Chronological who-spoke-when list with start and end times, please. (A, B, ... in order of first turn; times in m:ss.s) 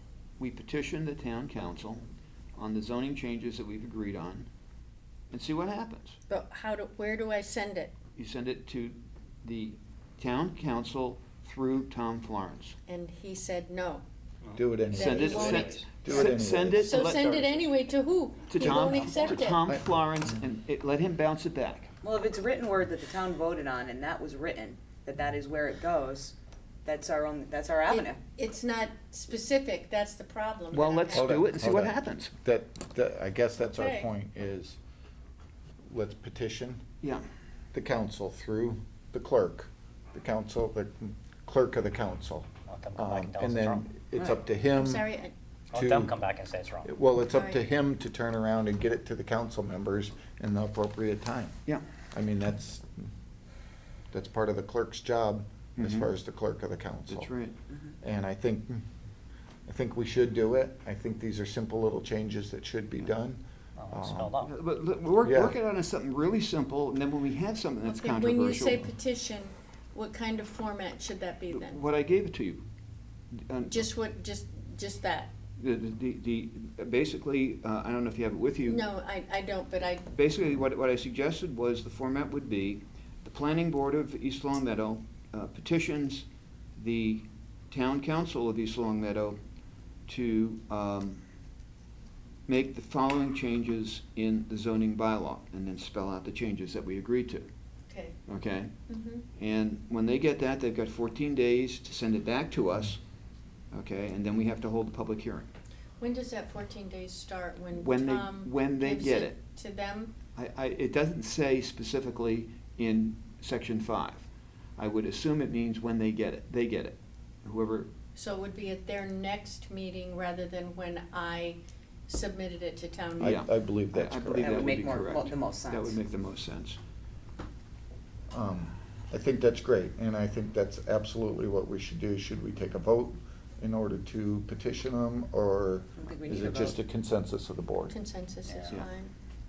0:00.4-0:02.0 A
0:02.6-0:04.5 A
0:05.3-0:06.2 A
0:06.3-0:07.9 B
0:08.2-0:12.8 A
0:12.9-0:14.0 B
0:14.6-0:17.1 C
0:14.9-0:15.9 B
0:14.9-0:17.3 A
0:16.8-0:19.7 B
0:17.1-0:17.6 D
0:18.5-0:21.9 A
0:18.7-0:19.2 D
0:22.0-0:28.2 E
0:27.9-0:31.3 B
0:30.7-0:32.3 A
0:31.1-0:34.8 C
0:33.8-0:34.1 B
0:35.9-0:36.8 C
0:37.7-0:45.0 C
0:42.6-0:43.8 D
0:44.7-0:45.3 B
0:45.7-0:46.2 C
0:45.7-0:46.9 D
0:46.8-0:51.6 C
0:47.3-0:47.6 B
0:52.1-0:53.1 C
0:54.1-0:57.3 C
0:55.8-0:56.1 A
0:57.1-0:57.6 A
0:58.0-0:58.8 C
0:59.6-1:04.4 C
1:03.8-1:04.5 D
1:04.4-1:08.8 A
1:05.2-1:05.6 C
1:07.8-1:11.8 B
1:11.5-1:12.6 A
1:13.4-1:13.9 A
1:13.7-1:15.3 B
1:15.6-1:18.9 A
1:18.6-1:20.1 B
1:20.1-1:29.4 A
1:30.1-1:31.2 A
1:32.5-1:37.5 A
1:37.9-1:38.2 B
1:38.3-1:38.7 A
1:38.9-1:39.2 B
1:39.4-1:43.0 A
1:43.7-1:45.5 A
1:46.0-1:50.1 B
1:47.8-1:49.4 A
1:50.3-1:57.9 A
1:58.1-2:03.4 B
2:03.2-2:04.6 C
2:03.2-2:06.8 A
2:04.4-2:06.0 E
2:08.3-2:17.9 C
2:16.0-2:16.8 E
2:17.9-2:19.1 B